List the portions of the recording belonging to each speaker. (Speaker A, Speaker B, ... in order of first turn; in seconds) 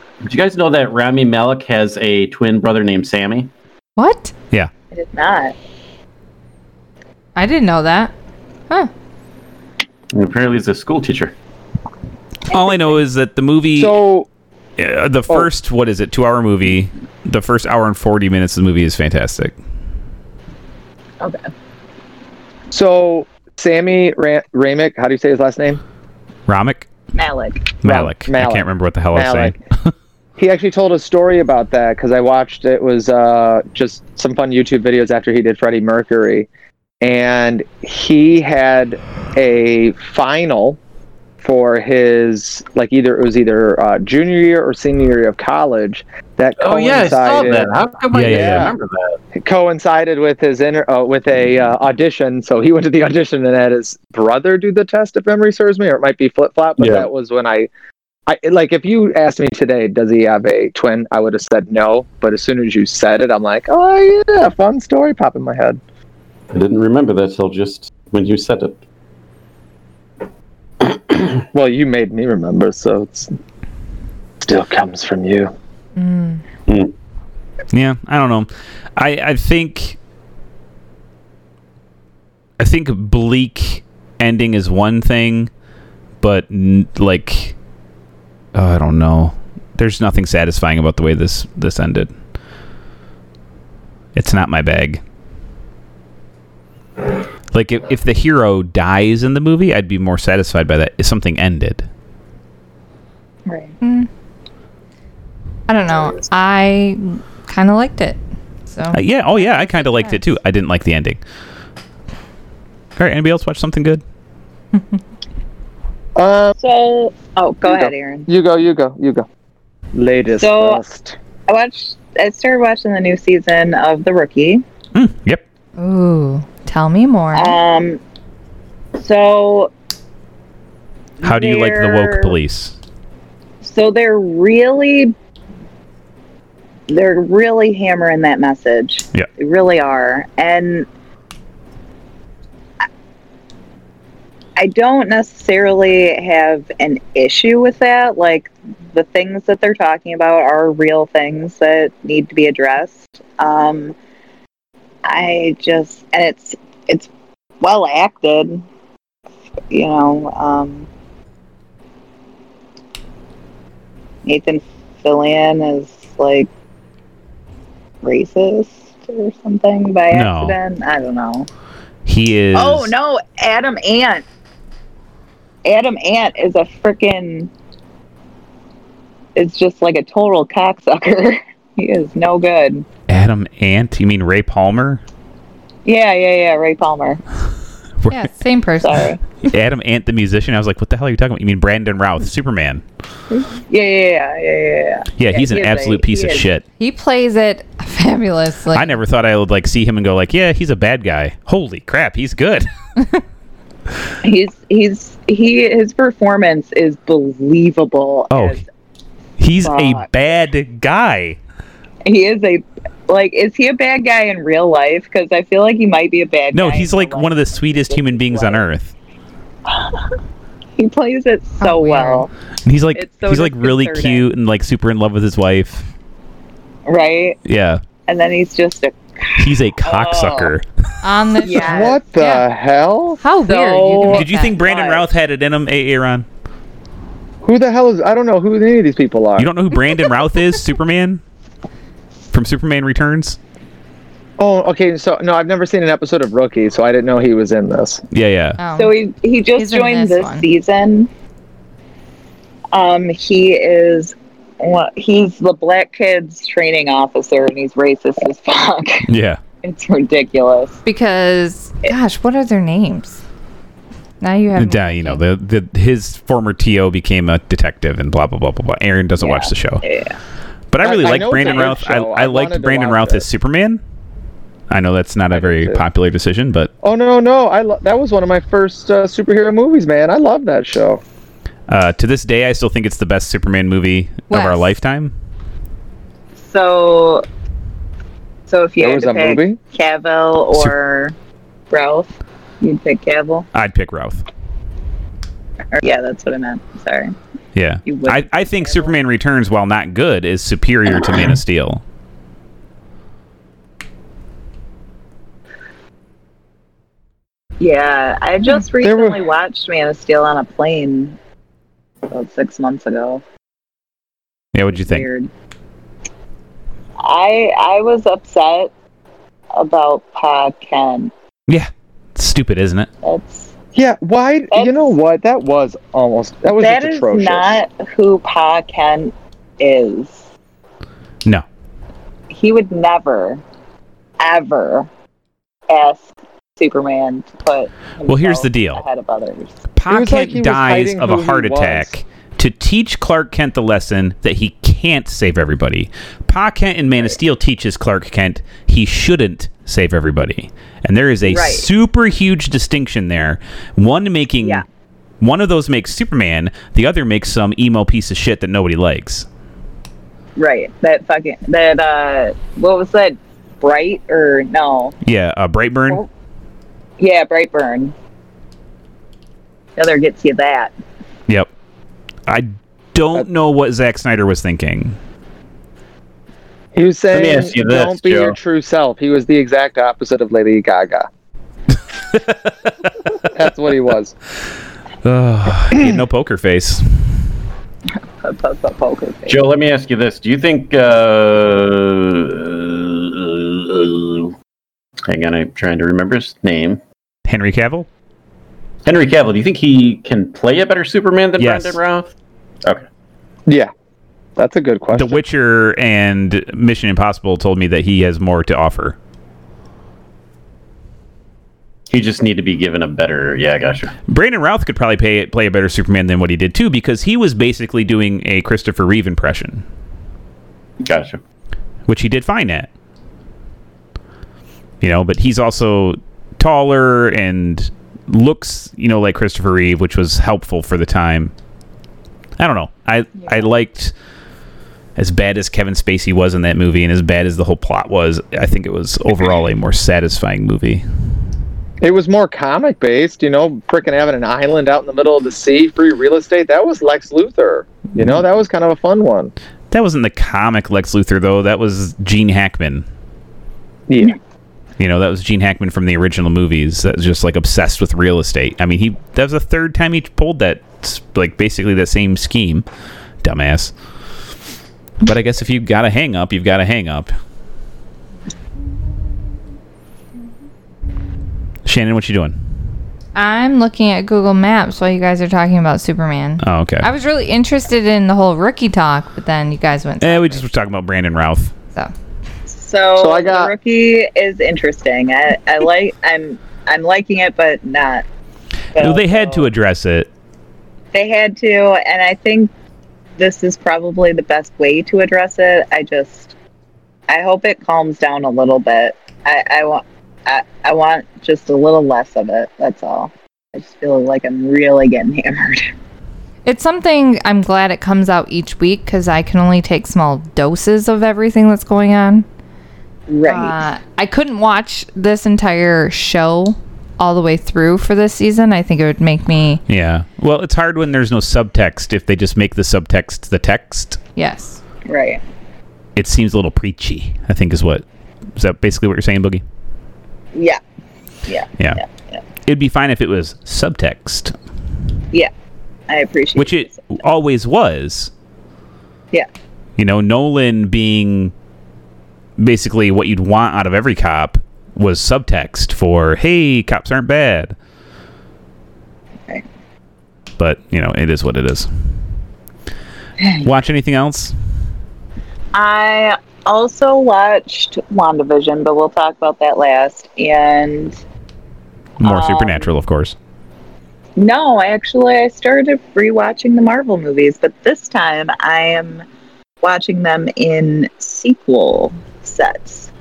Speaker A: 0.2-3.5, 10.1-11.3, 46.6-49.1, 56.8-57.1, 66.5-68.8, 70.8-71.3, 76.7-76.9, 377.1-378.4, 389.3-394.3, 395.1-396.8, 398.8-402.1, 411.9-413.9, 420.8-421.2
Speaker B: 4.0-4.3, 7.3-8.1, 76.0-76.4, 103.8-104.1, 105.7-108.2, 108.7-110.3, 125.8-127.6, 188.1-189.1, 196.8-198.9, 221.6-222.3, 231.0-232.4, 233.2-234.6, 248.6-248.9, 249.6-250.5, 260.8-263.2, 264.2-265.2, 284.3-284.7, 473.1-480.4, 506.4-512.2, 513.2-519.6, 524.2-524.6
Speaker C: 4.9-5.5, 12.5-13.0, 27.1-27.7, 103.5-103.8, 116.6-118.3, 120.4-120.8, 121.5-124.6, 127.3-128.0, 129.0-129.7, 131.2-132.3, 133.6-135.1, 136.9-140.9, 144.6-153.9, 155.0-157.1, 157.6-158.6, 159.7-160.9, 164.2-166.5, 168.0-171.5, 172.5-174.2, 175.6-177.5, 179.3-182.8, 185.8-187.2, 188.8-189.2, 193.3-196.5, 204.2-208.7, 209.6-210.1, 212.0-218.7, 219.7-220.1, 220.8-222.3, 222.9-224.3, 226.8-227.4, 228.1-230.5, 231.4-232.0, 233.4-235.1, 248.7-251.1, 252.7-259.1, 259.6-260.8, 269.2-270.2, 271.4-271.7, 286.4-287.2, 288.5-291.1, 291.7-293.5, 295.7-297.1, 297.8-298.9, 307.6-311.2, 312.1-313.2, 314.7-315.3, 317.0-318.7, 319.5-321.1, 323.0-323.5, 324.5-324.9, 326.5-330.2, 332.3-333.4, 334.2-334.9, 335.7-339.6, 351.2-351.7, 360.4-364.9, 367.0-367.9, 369.8-370.7, 388.2-389.4, 482.5-488.0, 488.7-489.5, 490.9-492.5, 493.2-496.3, 497.1-505.7, 513.1-513.6, 524.9-525.2, 530.3-530.6, 531.2-532.2, 535.9-536.9, 555.5-561.0, 562.0-562.7, 564.2-569.0, 569.6-572.9
Speaker D: 12.5-14.0, 14.8-19.5, 26.5-26.9, 27.8-29.6, 48.1-48.7, 77.7-80.0, 82.6-85.5, 86.2-87.5, 88.5-92.1, 94.1-95.0, 97.5-101.9, 108.9-111.2, 113.0-114.0, 124.9-125.4, 131.2-132.7, 170.1-170.6, 172.1-172.9, 183.1-185.0, 188.0-188.2, 189.4-192.8, 195.2-196.6, 198.7-202.7, 208.3-208.6, 209.4-211.4, 216.5-218.9, 222.6-225.8, 227.4-227.8, 229.4-230.7, 234.1-236.2, 239.4-241.2, 242.3-243.4, 248.1-248.6, 259.1-259.4, 264.6-269.8, 270.7-273.8, 274.7-276.7, 281.7-285.1, 293.5-294.2, 297.5-301.8, 314.5-315.0, 321.5-322.9, 338.1-338.8, 339.8-354.6, 355.2-359.3, 365.0-366.0, 372.3-375.0, 382.1-382.4, 385.0-386.8, 397.2-397.9, 401.4-401.8, 404.9-409.0, 414.1-419.6, 421.9-422.7, 424.8-431.3, 432.4-433.9, 435.0-440.8, 449.7-452.8, 454.8-462.6, 463.2-463.7, 465.0-467.1, 471.6-472.4, 476.4-476.9, 480.0-481.5, 488.8-490.1, 519.7-524.0, 526.0-527.8, 528.4-529.4, 532.5-534.3, 536.4-538.1, 539.8-541.3, 542.4-547.5, 550.4-551.7, 553.4-554.3, 562.0-563.1
Speaker E: 13.7-14.3, 22.7-25.8, 27.8-29.6, 30.4-36.5, 37.0-40.8, 41.4-48.7, 49.3-57.7, 58.3-65.8, 71.5-73.3, 74.4-75.5, 116.2-116.5, 117.6-119.2, 119.9-121.2, 231.6-233.2, 237.4-239.5, 244.4-248.0, 270.8-273.3, 275.3-275.8, 276.8-281.0, 288.8-289.6, 308.8-309.2, 323.7-327.6, 339.9-341.9, 376.7-381.1, 383.3-384.1, 404.4-405.2, 441.8-449.3, 453.9-454.2, 483.0-483.5